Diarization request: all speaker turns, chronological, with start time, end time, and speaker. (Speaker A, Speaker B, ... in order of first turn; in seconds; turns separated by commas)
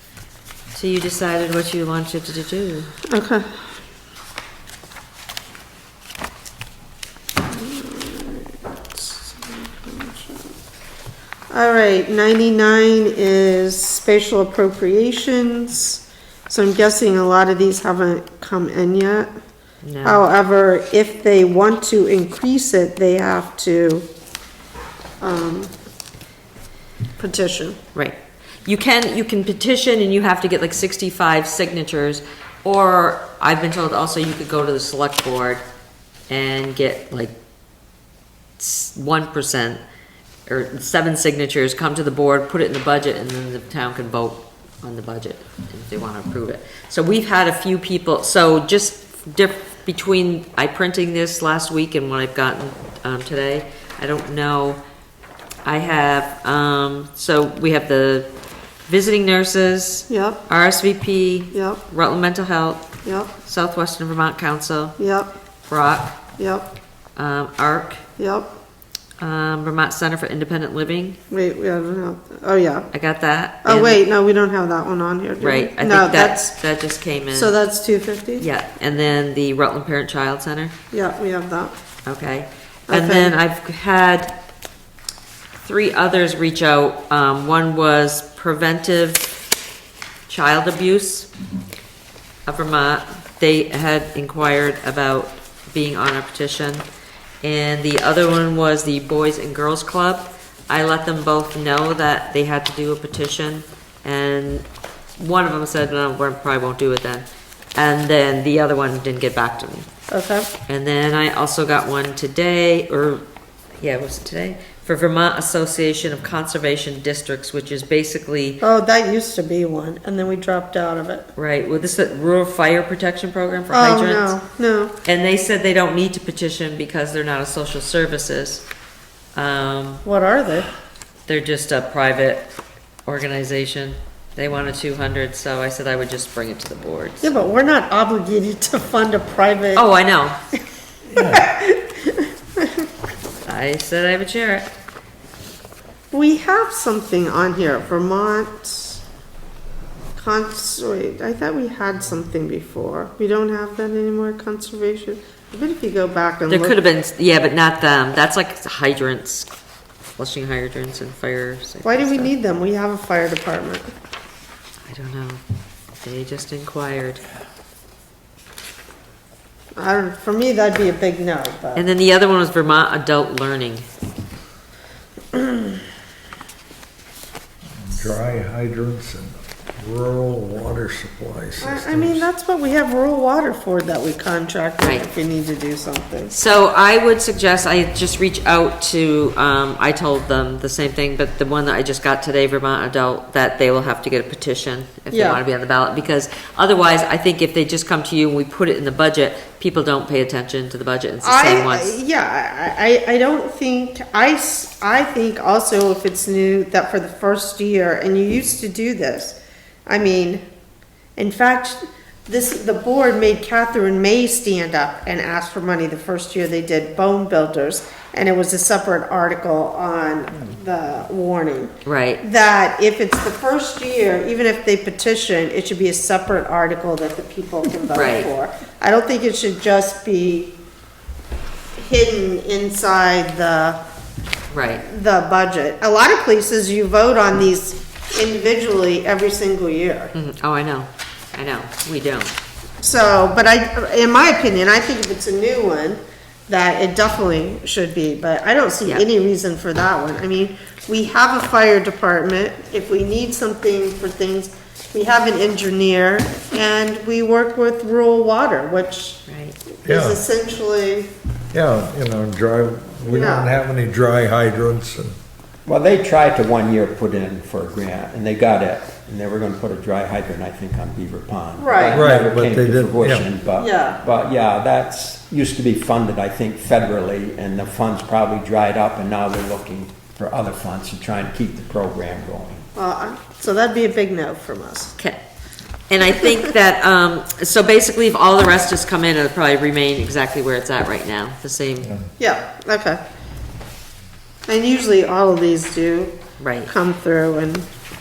Speaker A: 0.7-2.9, Speaker B: 3.1-3.6, Speaker B: 7.5-10.5, Speaker B: 11.5-19.3, Speaker A: 19.8-20.2, Speaker B: 20.0-24.1, Speaker B: 25.2-25.7, Speaker B: 27.2-27.8, Speaker A: 27.9-35.6, Speaker A: 36.3-37.3, Speaker A: 38.6-39.8, Speaker A: 40.5-54.8, Speaker A: 55.6-58.3, Speaker A: 58.9-62.9, Speaker B: 60.1-60.4, Speaker B: 61.5-61.8, Speaker B: 63.0-63.3, Speaker A: 63.4-65.0, Speaker B: 65.0-65.3, Speaker A: 65.7-66.2, Speaker B: 66.4-66.7, Speaker A: 67.2-68.0, Speaker B: 68.2-68.5, Speaker A: 69.2-71.2, Speaker B: 71.3-72.9, Speaker A: 72.9-74.0, Speaker B: 73.6-76.5, Speaker A: 75.4-77.5, Speaker B: 77.3-78.5, Speaker A: 78.4-80.7, Speaker B: 80.9-81.7, Speaker A: 82.0-84.3, Speaker B: 82.9-83.3, Speaker A: 85.6-89.3, Speaker A: 90.3-91.3, Speaker A: 92.5-96.8, Speaker A: 97.4-104.7, Speaker A: 105.2-109.9, Speaker B: 110.1-110.5, Speaker A: 110.7-113.2, Speaker A: 113.8-118.6, Speaker B: 118.6-121.3, Speaker A: 121.3-124.3, Speaker B: 123.7-124.9, Speaker A: 125.0-128.7, Speaker A: 129.3-130.0, Speaker B: 130.1-130.7, Speaker A: 131.3-132.5, Speaker A: 133.1-137.3, Speaker B: 137.2-139.8, Speaker A: 139.8-140.4, Speaker B: 141.2-142.9, Speaker A: 143.4-144.7, Speaker B: 146.1-149.0, Speaker B: 150.2-156.8, Speaker A: 156.5-159.5, Speaker A: 160.2-162.3, Speaker B: 161.8-163.9, Speaker A: 164.9-165.4, Speaker A: 166.0-167.2, Speaker B: 169.8-171.9, Speaker A: 171.8-173.9, Speaker C: 177.8-182.2, Speaker B: 181.6-186.3, Speaker A: 184.8-185.1, Speaker A: 186.3-202.0, Speaker B: 195.1-195.4, Speaker B: 201.2-210.4, Speaker B: 211.2-230.5, Speaker A: 221.8-222.2, Speaker A: 227.9-228.3, Speaker B: 231.8-233.8, Speaker A: 234.5-234.8, Speaker B: 234.8-240.1, Speaker A: 240.1-242.3, Speaker B: 242.8-259.2, Speaker A: 259.3-259.6, Speaker B: 259.8-261.1, Speaker C: 259.8-260.2, Speaker C: 261.5-265.1, Speaker B: 263.0-263.5, Speaker D: 265.6-282.6, Speaker B: 271.6-272.1, Speaker C: 271.9-273.3, Speaker B: 273.5-274.0, Speaker B: 282.8-284.9, Speaker A: 285.9-291.9, Speaker C: 291.8-292.1, Speaker B: 292.2-293.0, Speaker B: 294.5-296.2, Speaker A: 296.4-296.7, Speaker B: 296.7-297.7